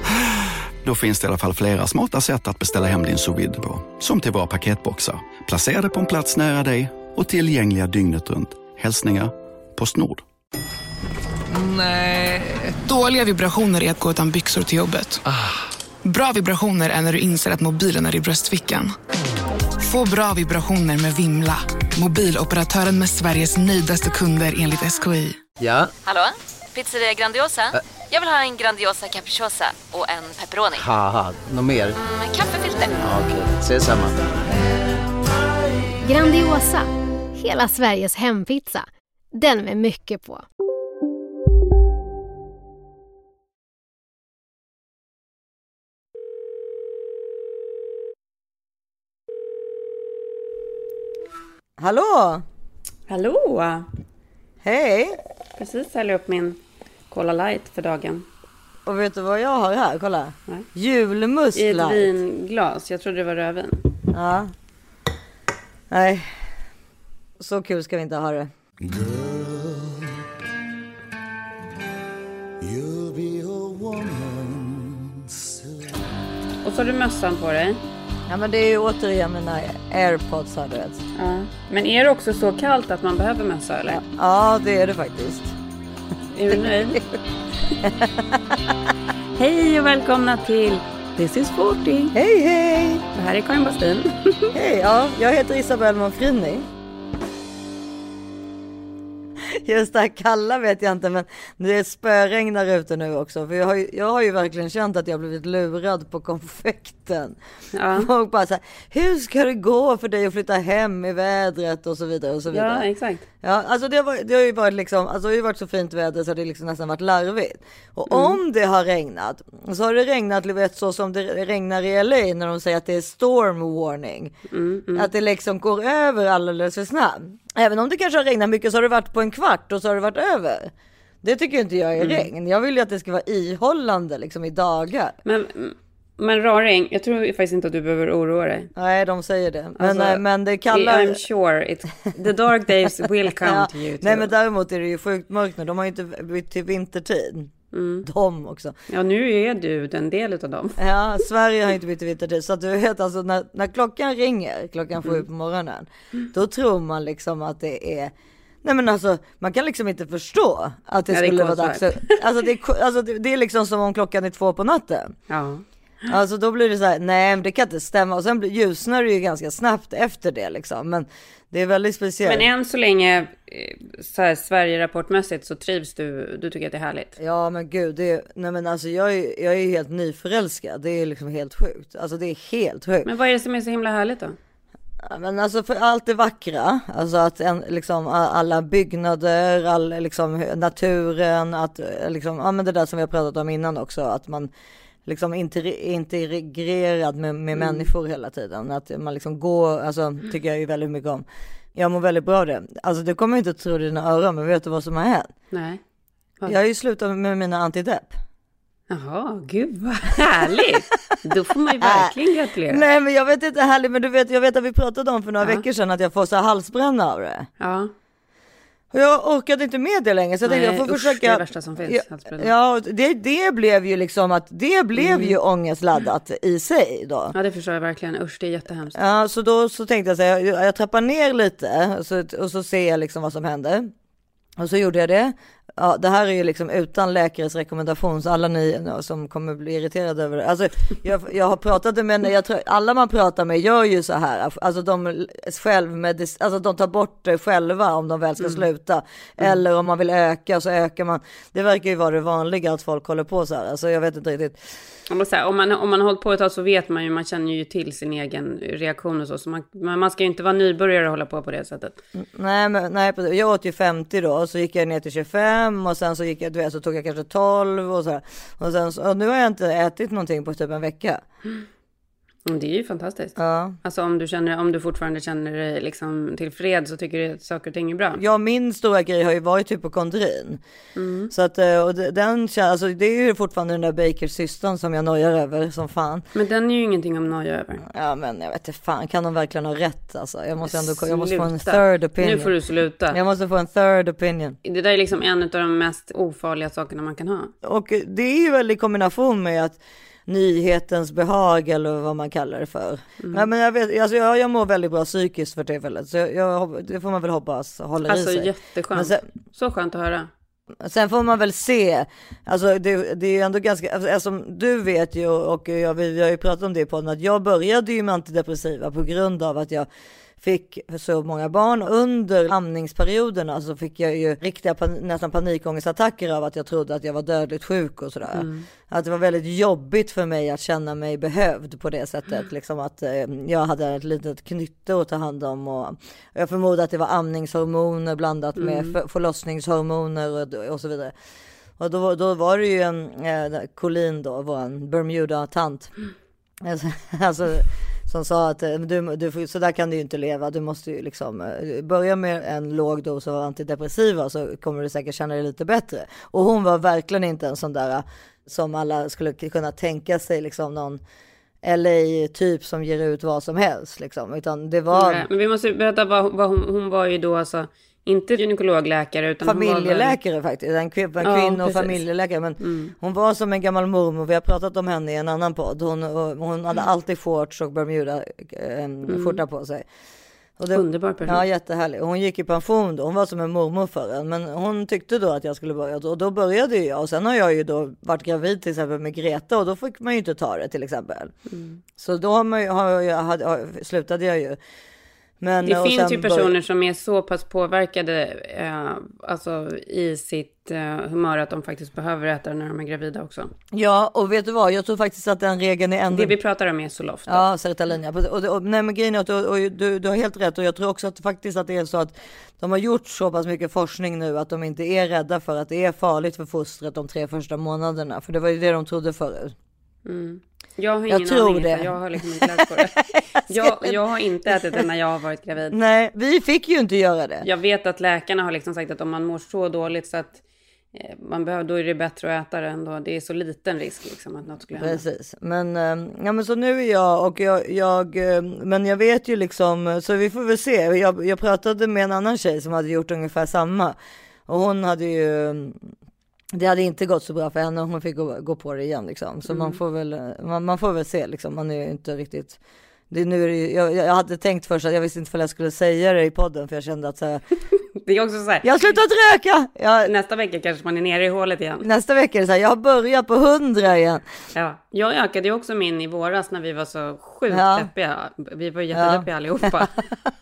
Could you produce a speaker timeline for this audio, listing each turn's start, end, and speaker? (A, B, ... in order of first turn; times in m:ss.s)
0:00.8-0:10.2 A
0:11.5-0:15.2 B
0:16.0-0:19.0 B
0:19.8-0:25.4 B
0:26.0-0:30.9 C
0:30.8-0:31.9 D
0:32.0-0:33.2 C
0:33.1-0:34.1 D
0:36.0-0:40.4 E
0:51.8-0:52.4 F
0:53.1-0:53.9 G
0:54.6-0:55.2 F
0:55.6-0:56.6 G
0:57.1-0:58.2 G
0:58.9-1:02.1 F
1:01.6-1:03.9 G
1:04.1-1:04.5 F
1:05.9-1:06.4 F
1:07.4-1:08.5 F
1:16.6-1:17.8 G
1:18.3-1:21.0 F
1:21.2-1:24.0 G
1:23.9-1:25.5 F
1:26.4-1:27.0 G
1:26.5-1:27.0 F
1:27.8-1:28.1 F
1:29.4-1:32.1 G
1:32.1-1:33.0 F
1:33.1-1:34.5 G
1:34.5-1:36.7 F
1:39.5-1:47.4 F
1:47.7-1:48.1 G
1:47.9-1:52.9 F
1:52.5-1:53.2 G
1:53.4-2:04.3 F
1:58.1-1:58.4 G
2:04.5-2:05.1 G
2:05.0-2:10.7 F
2:11.2-2:15.1 F
2:12.0-2:12.3 G
2:15.2-2:18.7 G
2:18.8-2:21.2 F
2:19.8-2:24.3 G
2:23.4-2:27.5 F
2:27.7-2:28.1 G
2:28.0-2:28.8 F
2:28.9-2:30.8 G
2:30.8-2:38.1 F
2:38.6-2:45.1 F
2:41.1-2:42.2 G
2:45.3-2:45.6 G
2:46.1-2:52.5 F
2:52.2-2:57.2 G
2:57.2-3:03.1 F
3:03.0-3:04.4 G
3:05.0-3:14.5 F
3:15.1-3:25.3 F
3:17.6-3:17.9 G
3:25.5-3:25.8 G
3:26.5-3:28.2 F
3:28.9-3:32.8 G
3:31.8-3:32.1 F
3:32.7-3:37.5 F
3:37.6-3:37.9 G
3:38.9-3:47.4 F
3:40.4-3:42.5 G
3:45.0-3:45.4 G
3:47.3-3:49.0 G
3:49.0-3:53.9 F
3:54.6-4:14.6 F
4:08.4-4:08.7 G
4:15.1-4:22.0 G
4:22.2-4:31.2 F
4:32.5-4:38.2 G
4:33.4-4:33.8 F
4:38.2-4:40.6 F
4:41.0-4:41.3 G
4:41.3-4:46.2 F
4:46.4-4:47.8 G
4:47.9-4:52.5 F
4:50.6-4:53.2 G
4:53.1-4:54.6 F
4:54.6-4:57.5 G
4:57.6-5:09.2 F
5:03.2-5:03.5 G
5:08.0-5:10.3 G
5:10.8-5:19.9 F
5:20.4-5:41.1 F
5:28.3-5:28.7 G
5:38.6-5:39.0 G
5:41.8-5:45.9 F
5:46.6-6:01.0 F
6:01.6-6:05.2 F
6:04.9-6:10.2 G
6:09.4-6:19.8 F
6:11.2-6:12.0 G
6:12.6-6:12.9 G
6:19.1-6:19.4 G
6:20.6-6:31.3 F
6:20.7-6:21.4 G
6:31.5-6:31.8 G
6:32.0-6:34.6 F
6:35.4-6:36.5 F
6:35.6-6:43.5 G
6:43.7-6:46.4 F
6:46.1-6:47.4 G
6:47.3-6:59.6 F
7:00.1-7:02.9 G
7:01.1-7:04.0 F
7:03.5-7:05.8 G
7:05.7-7:07.5 F
7:07.4-7:10.4 G
7:10.9-7:15.0 G
7:14.8-7:24.0 F
7:24.5-7:25.8 F
7:26.5-7:32.6 F
7:29.5-7:29.8 G
7:33.1-7:37.4 F
7:38.0-7:39.0 G
7:38.6-7:40.1 F
7:40.0-7:41.8 G
7:41.8-7:44.2 F
7:44.5-7:50.0 G
7:47.5-7:47.9 F
7:48.9-7:49.8 F